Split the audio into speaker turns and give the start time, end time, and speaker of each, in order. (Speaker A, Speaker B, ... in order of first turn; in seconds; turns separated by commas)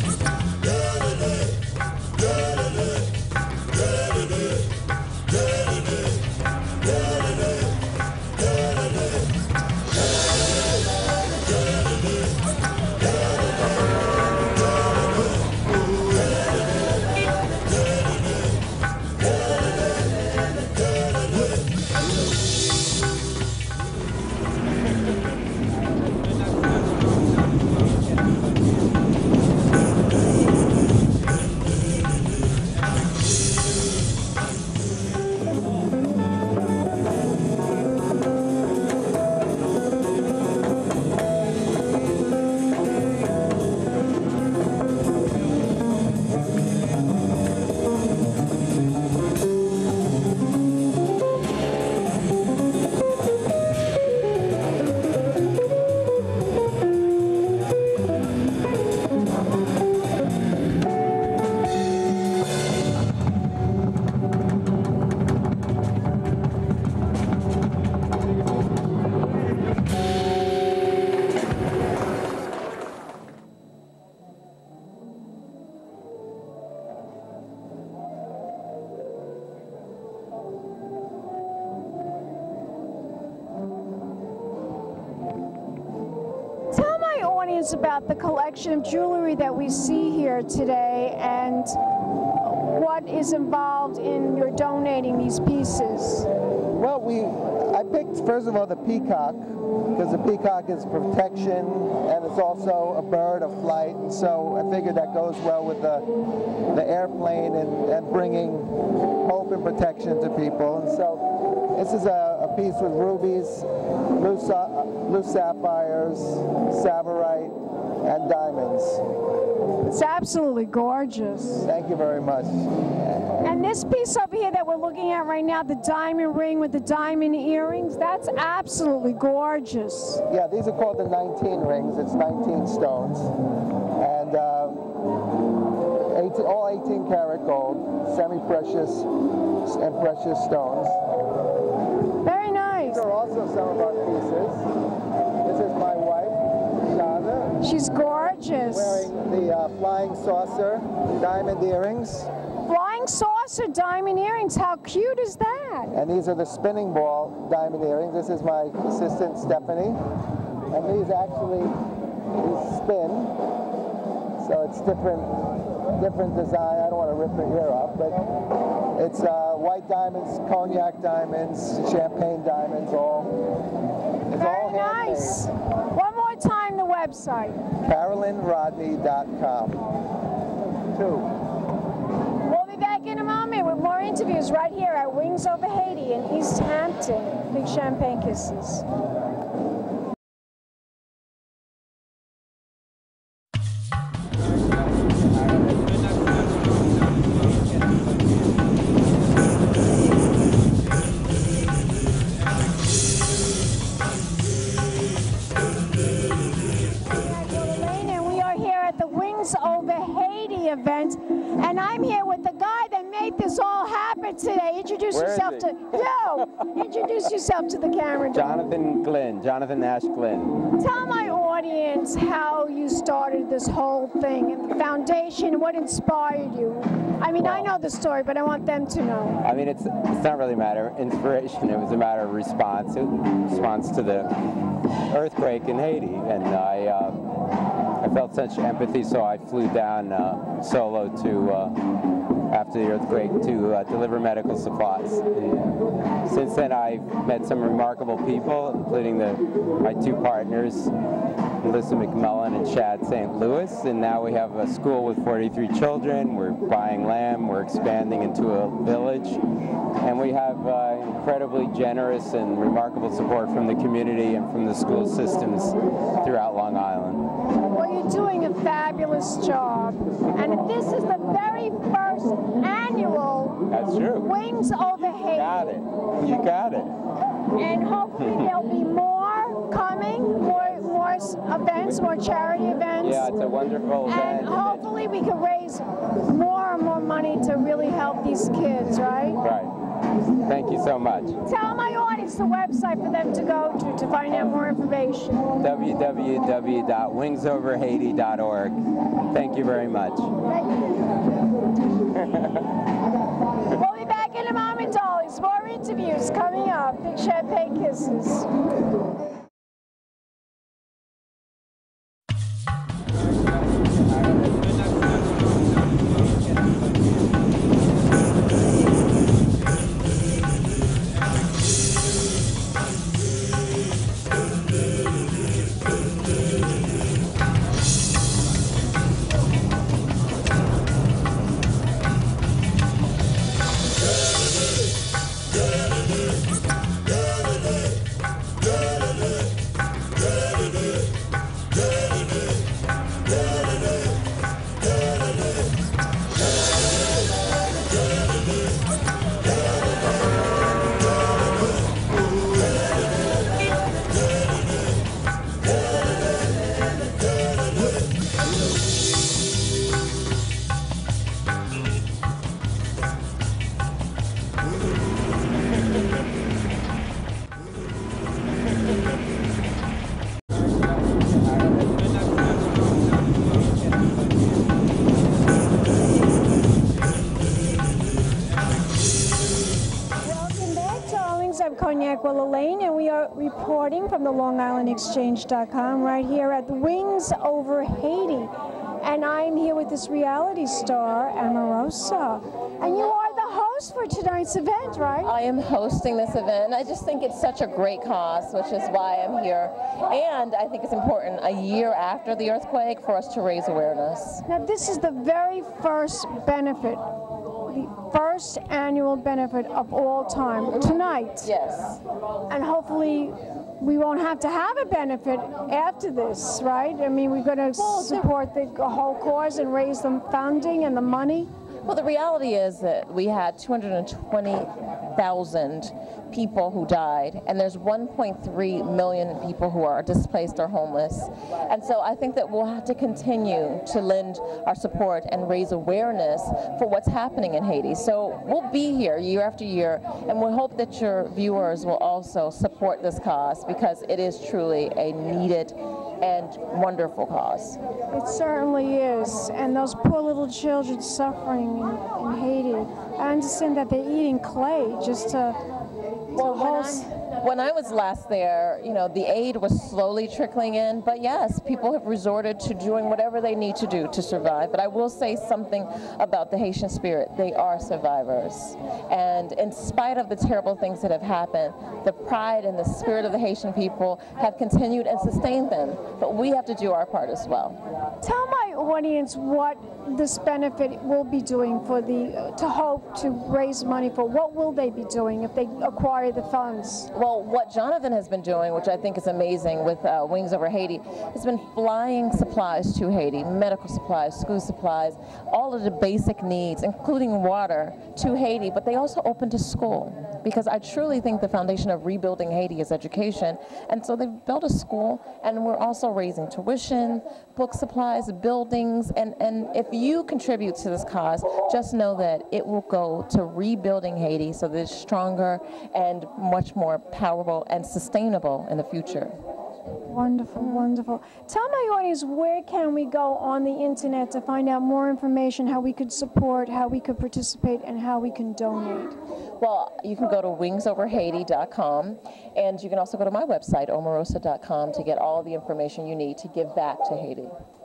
Speaker A: 86.7-96.3, Speaker B: 96.7-106.1, Speaker B: 106.7-119.0, Speaker A: 119.8-121.7, Speaker B: 121.6-123.4, Speaker A: 123.4-130.2, Speaker B: 130.3-133.3, Speaker B: 134.0-134.8, Speaker B: 136.1-139.1, Speaker B: 139.6-141.0, Speaker A: 142.2-143.1, Speaker B: 142.9-144.7, Speaker B: 145.4-147.6, Speaker A: 147.6-149.1, Speaker B: 148.7-152.3, Speaker A: 152.6-155.9, Speaker B: 155.9-160.0, Speaker B: 160.7-161.8, Speaker B: 162.4-163.3, Speaker B: 164.4-165.3, Speaker B: 166.0-168.2, Speaker B: 168.9-173.3, Speaker B: 174.3-175.4, Speaker A: 174.3-177.6, Speaker B: 177.8-179.8, Speaker B: 180.9-181.3, Speaker A: 182.4-188.8, Speaker A: 206.9-218.6, Speaker C: 215.1-215.9, Speaker C: 218.3-220.6, Speaker A: 220.8-229.4, Speaker C: 227.4-227.7, Speaker C: 229.4-234.3, Speaker C: 235.1-237.2, Speaker C: 238.0-241.8, Speaker C: 242.5-245.7, Speaker C: 246.2-250.9, Speaker C: 251.6-259.4, Speaker C: 260.0-267.2, Speaker A: 267.7-273.6, Speaker C: 273.7-274.3, Speaker A: 274.2-275.7, Speaker C: 275.3-276.9, Speaker A: 277.5-283.3, Speaker C: 283.0-284.9, Speaker A: 284.1-289.4, Speaker C: 289.4-289.7, Speaker C: 290.4-291.4, Speaker A: 291.4-295.4, Speaker C: 295.6-300.3, Speaker A: 300.5-301.0, Speaker C: 302.2-302.7, Speaker A: 303.7-308.5, Speaker A: 380.2-395.3, Speaker D: 395.3-404.4, Speaker A: 404.5-411.5, Speaker D: 411.4-412.0, Speaker A: 412.5-421.5, Speaker D: 417.8-418.2, Speaker D: 421.8-447.8, Speaker A: 448.1-455.6, Speaker A: 456.3-457.1, Speaker D: 456.3-477.8, Speaker A: 478.2-487.1, Speaker D: 487.1-519.4, Speaker A: 520.1-529.2, Speaker D: 529.6-537.6